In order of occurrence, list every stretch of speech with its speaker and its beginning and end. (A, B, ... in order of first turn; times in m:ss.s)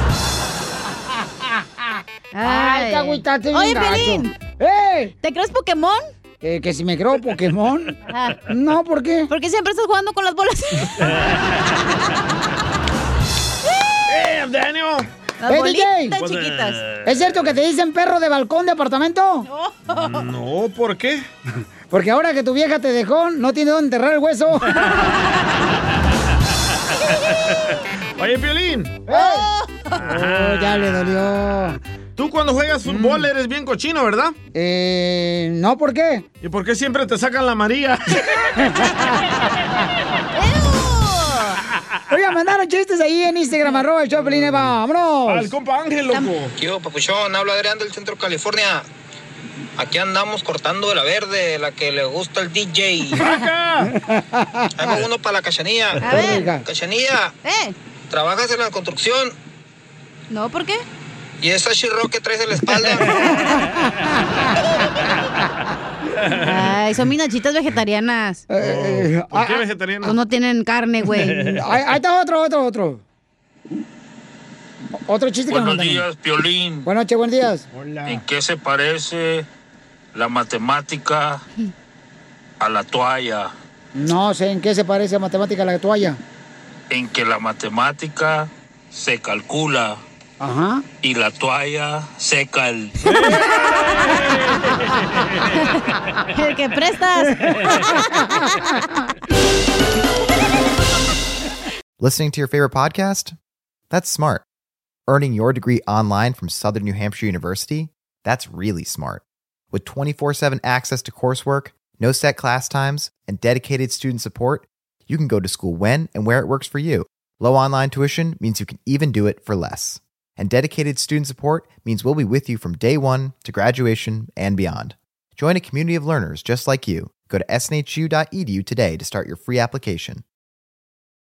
0:02.3-0:04.3 A
0:02.4-0:05.1 B
0:05.2-0:06.1 A
0:06.4-0:07.9 B
0:08.1-0:08.4 A
0:08.5-0:09.3 B
0:09.3-0:11.1 A
0:14.1-0:15.1 C
0:15.4-0:16.8 A
0:15.5-0:16.2 B
0:16.2-0:17.4 C
0:17.0-0:19.5 B
0:19.5-0:20.3 A
0:19.9-0:21.3 C
0:21.9-0:24.7 B
0:25.0-0:25.3 A
0:27.3-0:29.0 C
0:29.1-0:29.5 B
0:29.1-0:30.0 A
0:30.0-0:31.3 C
0:30.1-0:31.8 B
0:32.2-0:34.4 C
0:32.9-0:33.3 B
0:34.5-0:36.2 B
0:36.4-0:38.6 C
0:38.8-0:39.1 B
0:40.4-0:41.6 A
0:42.1-0:45.5 B
0:45.3-0:46.5 C
0:46.6-0:48.9 D
0:49.8-0:53.2 D
0:53.2-0:53.9 C
0:53.9-0:54.8 B
0:54.8-0:56.0 D
0:56.0-0:56.5 A
0:56.1-0:56.6 B
0:56.6-0:57.3 D
0:57.4-0:57.7 A
0:58.1-0:59.4 D
1:00.3-1:00.8 A
1:01.4-1:03.2 D
1:06.2-1:06.6 C
1:06.4-1:08.4 A
1:08.5-1:09.6 B
1:08.6-1:10.2 C
1:10.0-1:11.5 A
1:11.2-1:11.6 C
1:11.5-1:13.0 B
1:15.1-1:16.1 B
1:15.5-1:16.9 E
1:16.8-1:17.7 B
1:17.7-1:18.2 C
1:18.1-1:19.5 E
1:20.1-1:21.4 E
1:22.6-1:23.5 E
1:24.0-1:26.2 B
1:26.9-1:30.0 E
1:30.4-1:30.8 B
1:31.0-1:32.9 E
1:33.0-1:35.5 C
1:33.3-1:34.2 A
1:35.5-1:38.2 A
1:42.0-1:43.3 F
1:43.9-1:44.4 F
1:45.1-2:10.2 F